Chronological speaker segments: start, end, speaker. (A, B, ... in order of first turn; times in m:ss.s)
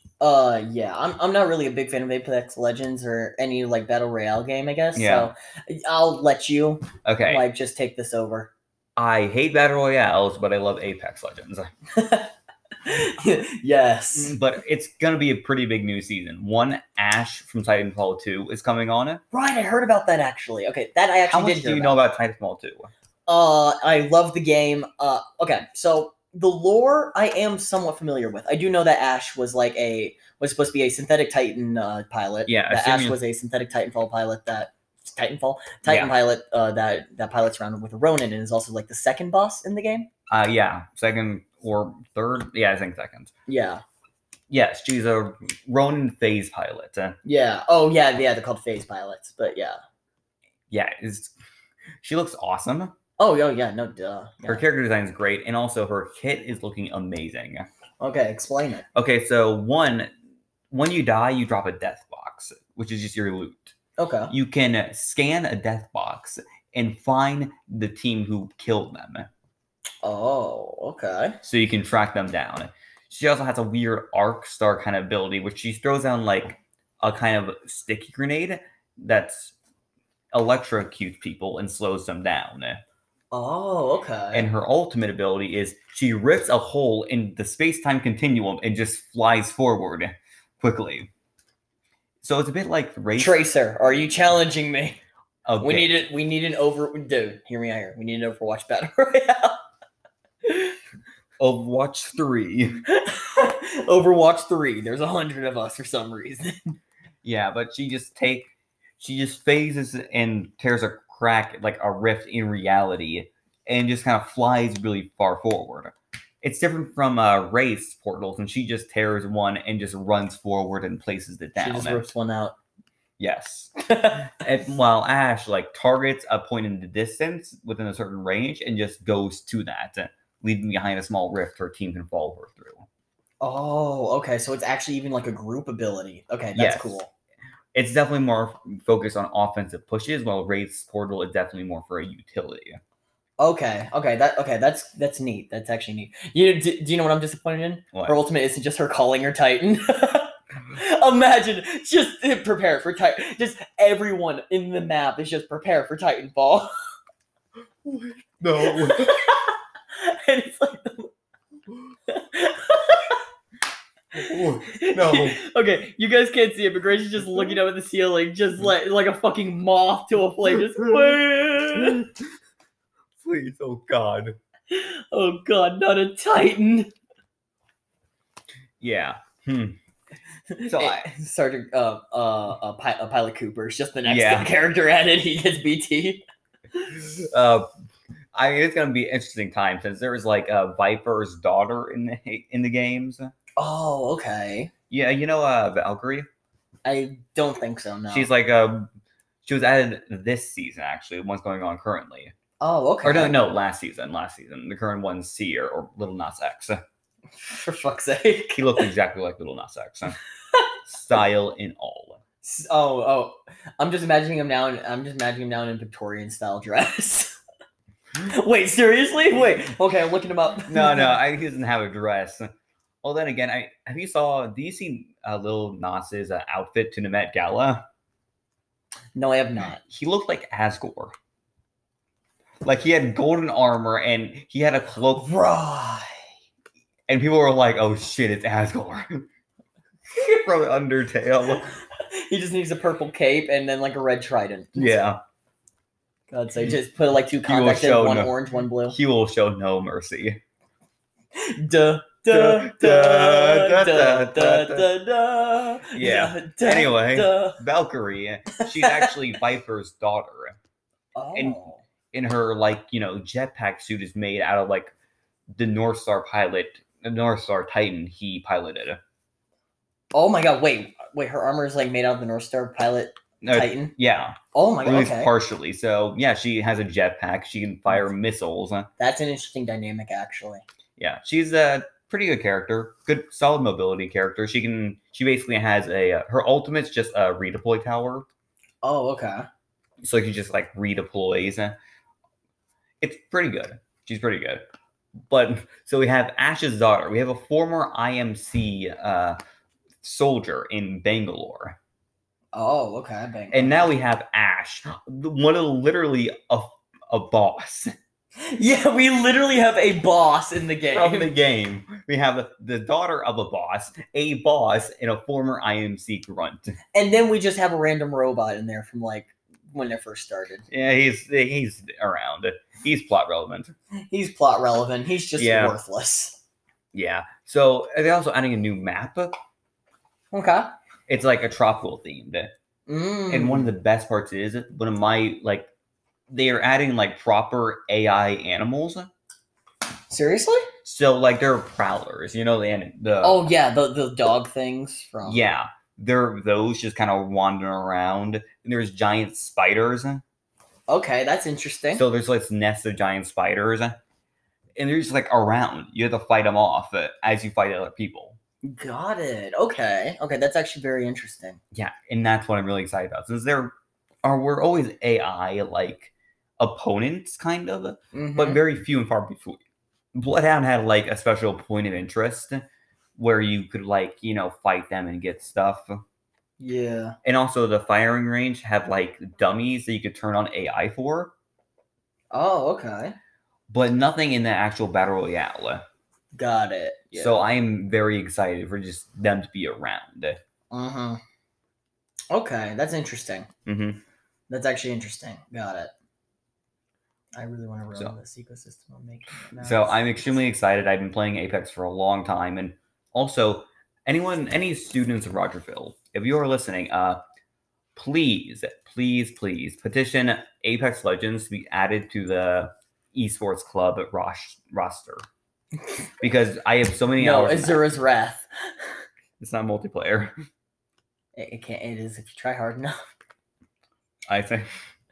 0:00.2-0:08.5 A
0:04.9-0:05.3 B
0:07.0-0:07.4 B
0:09.0-0:11.7 B
0:11.9-0:12.3 A
0:12.8-0:14.4 A
0:14.1-0:19.2 B
0:19.3-0:22.0 A
0:21.3-0:22.9 B
0:23.3-0:40.1 A
0:32.5-0:33.2 B
0:35.8-0:36.1 B
0:40.3-0:43.3 B
0:43.5-0:43.8 A
0:44.5-0:47.2 B
0:47.2-0:49.8 A
0:50.7-0:51.3 B
0:52.0-0:52.9 B
0:53.2-0:54.6 A
0:54.4-0:57.7 B
0:58.0-0:58.8 A
0:58.9-1:00.1 B
1:00.7-1:03.7 B
1:04.0-1:04.3 A
1:04.3-1:09.3 B
1:10.0-1:11.4 A
1:11.4-1:19.5 B
1:20.3-1:22.8 B
1:23.3-1:24.5 A
1:24.3-1:31.1 B
1:32.2-1:33.4 B
1:33.2-1:35.0 A
1:35.4-1:36.0 B
1:35.6-1:39.6 A
1:40.4-1:40.8 A
1:41.4-1:42.8 B
1:42.9-1:46.8 A
1:47.2-2:02.1 B
2:01.6-2:02.6 A
2:03.2-2:12.9 B
2:03.8-2:04.4 A
2:13.4-2:17.1 A
2:16.6-2:16.9 B
2:17.7-2:22.8 B
2:23.4-2:36.7 A
2:37.8-2:39.2 B
2:38.6-2:41.1 A
2:42.1-2:43.2 A
2:44.1-2:45.4 B
2:44.2-2:52.1 A
2:50.7-2:51.1 B
2:51.7-2:52.1 B
2:53.2-2:54.4 B
2:54.7-2:56.9 A
2:58.8-2:59.8 B
3:00.5-3:06.2 A
3:00.7-3:01.1 B
3:04.0-3:04.5 B
3:06.9-3:07.7 B
3:08.3-3:13.3 B
3:13.6-3:14.7 A
3:14.9-3:16.3 B
3:16.8-3:18.3 A
3:18.1-3:18.9 B
3:19.4-3:22.3 B
3:22.6-3:23.4 A
3:23.0-3:26.8 B
3:27.4-3:28.8 A
3:28.5-3:30.2 B
3:30.8-3:32.2 B
3:32.4-3:37.4 A
3:38.2-3:41.2 A
3:40.7-3:42.5 B
3:43.0-3:47.8 B
3:49.1-3:49.8 A
3:49.9-3:51.1 B
3:52.6-3:55.3 B
3:55.2-3:56.2 A
3:57.1-3:59.3 B
4:00.1-4:01.7 B
4:01.5-4:04.9 A
4:04.8-4:05.2 B
4:06.3-4:09.0 A
4:07.4-4:08.3 B
4:08.9-4:10.4 B
4:11.3-4:17.6 A
4:12.3-4:14.9 B
4:15.9-4:20.6 B
4:18.6-4:19.1 A
4:21.1-4:21.8 A
4:22.1-4:24.9 B
4:25.5-4:29.0 B
4:30.1-4:33.9 A
4:33.4-4:38.9 B
4:34.5-4:35.3 A
4:39.0-4:40.6 A
4:41.0-4:48.2 B
4:48.8-4:49.4 A
4:50.0-4:51.8 B
4:53.0-4:54.6 B
4:55.3-4:59.4 B
5:00.0-5:01.8 B
5:02.5-5:03.8 A
5:03.5-5:07.9 B
5:08.4-5:11.3 A
5:10.9-5:16.8 B
5:16.9-5:20.6 A
5:20.7-5:23.7 B
5:24.1-5:26.4 A
5:25.4-5:25.8 B
5:26.9-5:29.4 B
5:30.3-5:30.7 A
5:31.1-5:32.5 B
5:32.9-5:33.7 A
5:33.3-5:35.7 B
5:36.3-5:39.1 B
5:40.1-5:40.7 A
5:40.8-5:43.4 B
5:43.2-5:45.4 A
5:45.2-5:50.2 B
5:50.9-5:52.0 A
5:51.9-5:54.0 B
5:54.8-5:58.4 B
5:58.6-6:01.6 A
6:01.7-6:09.6 B
6:08.1-6:08.6 A
6:10.1-6:12.6 B
6:13.2-6:16.0 B
6:16.6-6:17.2 A
6:17.2-6:21.3 B
6:22.3-6:23.2 A
6:23.7-6:25.8 B
6:26.3-6:27.4 A
6:27.1-6:30.4 B
6:30.7-6:31.2 A
6:32.3-6:33.5 A
6:33.6-6:34.0 B
6:34.5-6:35.9 A
6:37.3-6:40.1 A
6:39.6-6:47.2 B
6:48.0-6:55.2 B
6:56.2-6:57.8 B
6:57.2-6:58.5 A
6:59.4-7:00.3 B
7:01.4-7:03.0 A
7:04.3-7:04.7 B